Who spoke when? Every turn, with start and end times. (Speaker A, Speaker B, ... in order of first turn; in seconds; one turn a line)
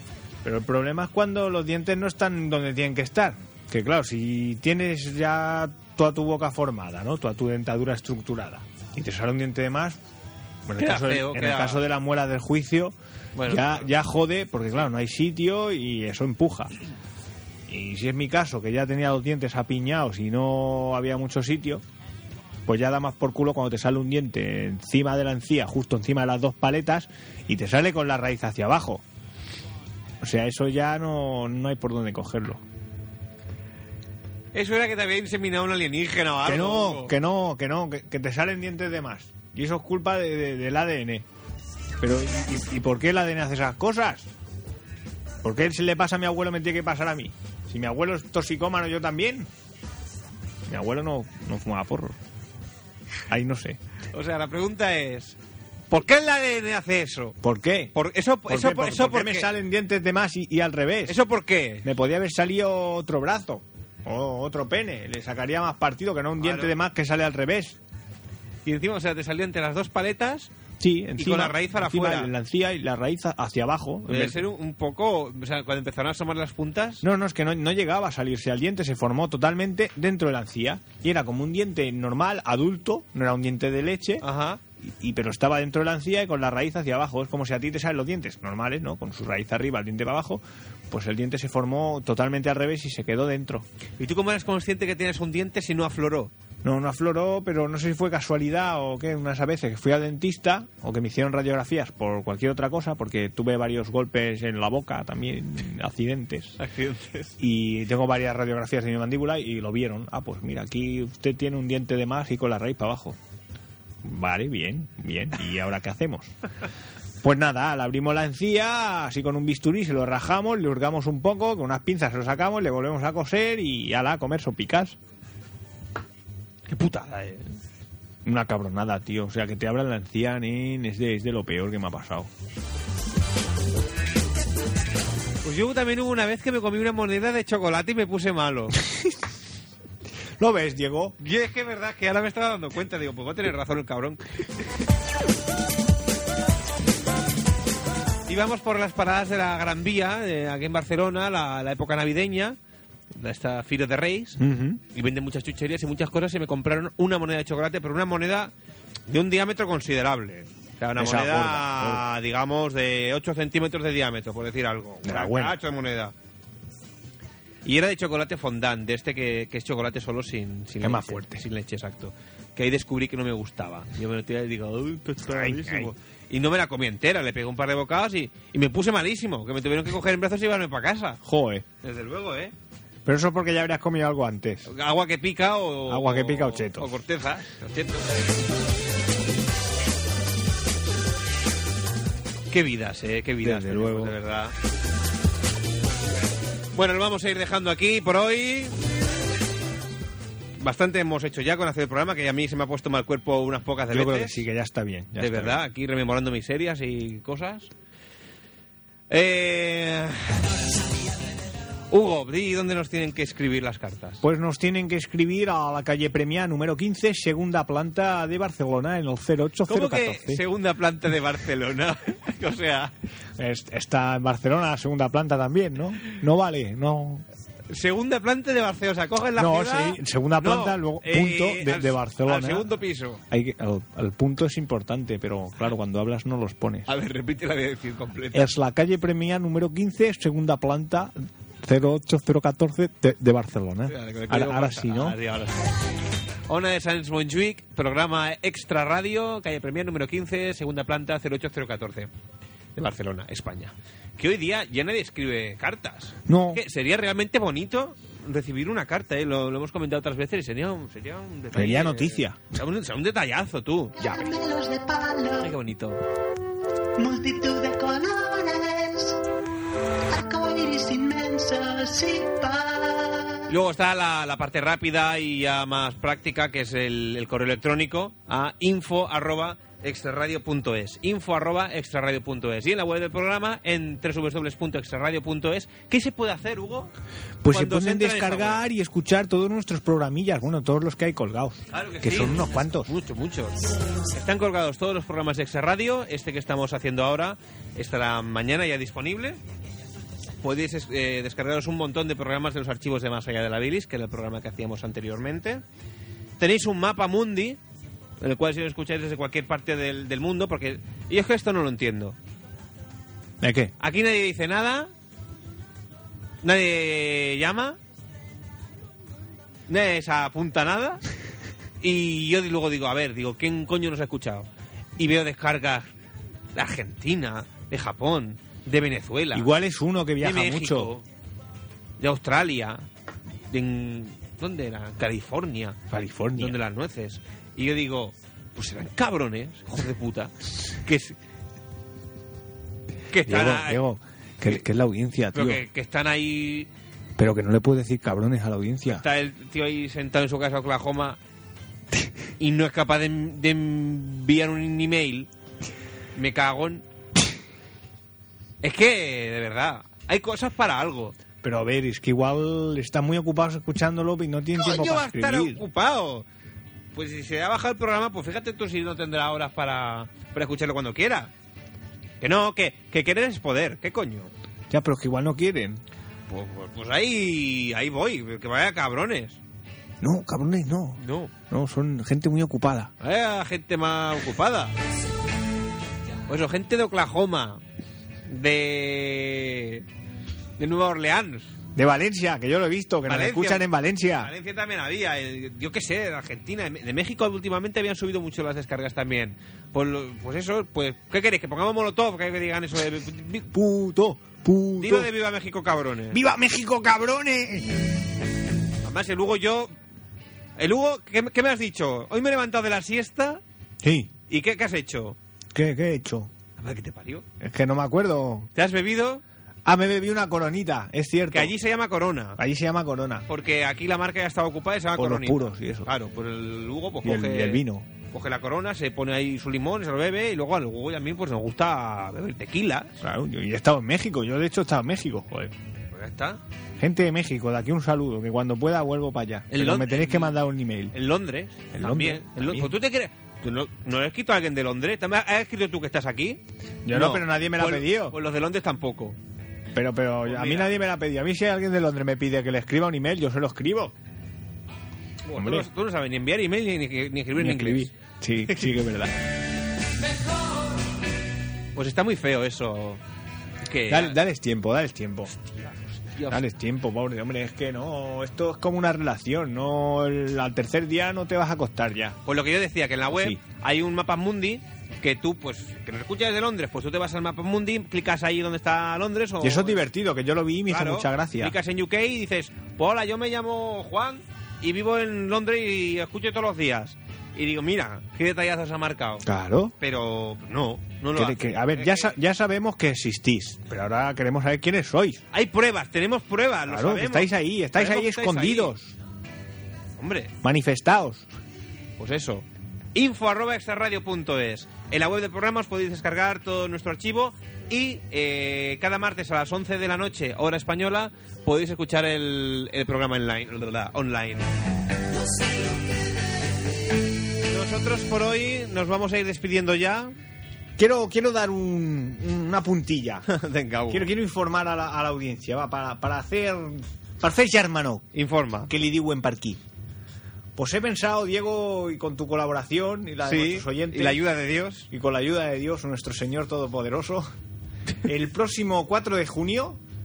Speaker A: 0.4-10.0
Speaker A: 10.7-16.7
Speaker B: 10.8-11.8
Speaker B: 13.3-13.9
Speaker A: 17.7-21.8
Speaker A: 22.7-29.0
Speaker A: 30.2-32.6
Speaker B: 34.5-37.1
Speaker A: 36.5-41.3
Speaker A: 42.0-44.3
Speaker A: 45.4-49.5
Speaker A: 50.7-52.2
Speaker A: 53.3-53.8
Speaker B: 54.1-55.4
Speaker B: 55.9-57.4
Speaker A: 57.4-57.9
Speaker B: 57.9-59.5
Speaker A: 58.5-61.2
Speaker B: 61.1-61.9
Speaker A: 61.8-67.8
Speaker B: 66.4-66.7
Speaker B: 68.7-70.5
Speaker A: 70.8-74.4
Speaker B: 71.2-72.3
Speaker B: 74.1-77.0
Speaker A: 77.0-84.2
Speaker B: 84.2-84.6
Speaker A: 84.8-93.7
Speaker B: 94.0-96.3
Speaker A: 96.6-106.6
Speaker B: 106.6-107.3
Speaker A: 107.4-113.2
Speaker A: 114.0-116.3
Speaker A: 117.2-125.0
Speaker B: 126.7-127.5
Speaker A: 128.2-132.3
Speaker B: 135.4-138.8
Speaker A: 140.4-141.2
Speaker B: 141.2-144.2
Speaker B: 148.3-152.6
Speaker B: 153.2-158.5
Speaker A: 154.4-154.8
Speaker B: 159.1-166.1
Speaker A: 161.0-162.1
Speaker A: 165.0-165.6
Speaker B: 167.7-181.2
Speaker A: 170.8-171.4
Speaker A: 175.2-175.9
Speaker A: 181.2-181.7
Speaker B: 181.8-182.5
Speaker A: 183.1-184.7
Speaker B: 184.7-188.3
Speaker A: 185.9-186.9
Speaker B: 192.5-194.5
Speaker A: 193.4-194.2
Speaker B: 196.7-198.7
Speaker B: 200.6-204.4
Speaker A: 203.9-205.6
Speaker B: 205.2-207.7
Speaker B: 209.1-210.4
Speaker B: 211.9-214.2
Speaker A: 214.2-220.4
Speaker B: 219.7-222.9
Speaker A: 223.4-227.2
Speaker B: 227.7-233.2
Speaker A: 229.4-232.7
Speaker A: 233.3-236.9
Speaker B: 236.9-238.6
Speaker A: 238.3-245.2
Speaker B: 243.9-245.7
Speaker B: 246.5-252.1
Speaker B: 252.8-264.0
Speaker A: 256.3-256.6
Speaker A: 261.5-262.4
Speaker C: 264.0-265.6
Speaker B: 265.4-266.0
Speaker C: 267.0-269.2
Speaker C: 270.1-273.4
Speaker B: 273.5-286.9
Speaker A: 287.4-292.9
Speaker B: 287.5-288.6
Speaker B: 291.7-299.4
Speaker B: 300.4-305.6
Speaker B: 306.4-307.6
Speaker B: 308.2-312.1
Speaker A: 313.4-313.7
Speaker B: 313.8-314.9
Speaker B: 316.4-317.8
Speaker B: 319.7-321.0
Speaker B: 321.8-325.9
Speaker B: 326.5-329.5
Speaker A: 329.3-330.9
Speaker B: 330.2-331.0
Speaker B: 332.0-332.9
Speaker B: 333.5-335.8
Speaker A: 335.9-336.6
Speaker B: 336.4-341.2
Speaker B: 343.1-343.8
Speaker A: 343.2-345.6
Speaker B: 345.3-346.7
Speaker A: 347.2-349.1
Speaker B: 348.9-351.2
Speaker B: 352.4-355.3
Speaker B: 356.1-356.9
Speaker B: 358.6-361.1
Speaker A: 361.4-365.6
Speaker B: 364.6-366.3
Speaker B: 366.9-371.3
Speaker B: 372.2-374.3
Speaker A: 374.7-375.8
Speaker B: 376.3-379.4
Speaker A: 380.0-382.9
Speaker B: 381.0-381.3
Speaker B: 383.0-384.7
Speaker B: 386.3-387.6
Speaker B: 388.3-389.9
Speaker B: 390.6-391.5
Speaker A: 391.7-394.3
Speaker B: 393.1-403.5
Speaker A: 403.5-405.1
Speaker B: 404.8-406.2
Speaker A: 406.1-407.8
Speaker B: 408.8-409.7
Speaker B: 410.6-413.4
Speaker A: 413.8-414.1
Speaker B: 414.3-415.2
Speaker A: 415.5-416.3
Speaker B: 416.6-417.2
Speaker A: 417.4-418.5
Speaker B: 418.6-419.2
Speaker A: 419.7-421.5
Speaker B: 421.3-422.4
Speaker A: 422.4-423.3
Speaker B: 423.3-433.0
Speaker A: 424.9-425.9
Speaker A: 427.0-427.9
Speaker A: 433.0-435.5
Speaker B: 435.9-436.4
Speaker A: 436.8-440.9
Speaker B: 439.5-440.4
Speaker B: 440.9-449.2
Speaker A: 441.7-442.7
Speaker A: 446.9-448.2
Speaker A: 449.7-453.9
Speaker B: 450.2-450.8
Speaker B: 455.3-457.9
Speaker A: 455.4-455.7
Speaker A: 457.4-459.1
Speaker B: 461.7-463.0
Speaker B: 463.6-464.2
Speaker A: 463.9-465.3
Speaker B: 465.6-466.4
Speaker A: 466.3-472.2
Speaker B: 472.2-479.8
Speaker A: 473.1-473.4
Speaker A: 479.4-481.6
Speaker B: 480.7-489.3
Speaker A: 489.2-489.7
Speaker B: 489.8-492.1
Speaker A: 491.1-495.2
Speaker B: 495.3-498.7
Speaker A: 496.7-498.9
Speaker B: 500.0-500.3
Speaker A: 500.4-501.3
Speaker B: 502.0-514.5
Speaker B: 517.5-520.1
Speaker A: 520.8-523.3
Speaker B: 523.3-524.1
Speaker A: 523.9-528.1
Speaker B: 528.1-528.7
Speaker A: 528.7-529.6
Speaker A: 530.6-534.2
Speaker B: 533.2-534.9
Speaker A: 534.9-537.2
Speaker A: 538.0-539.8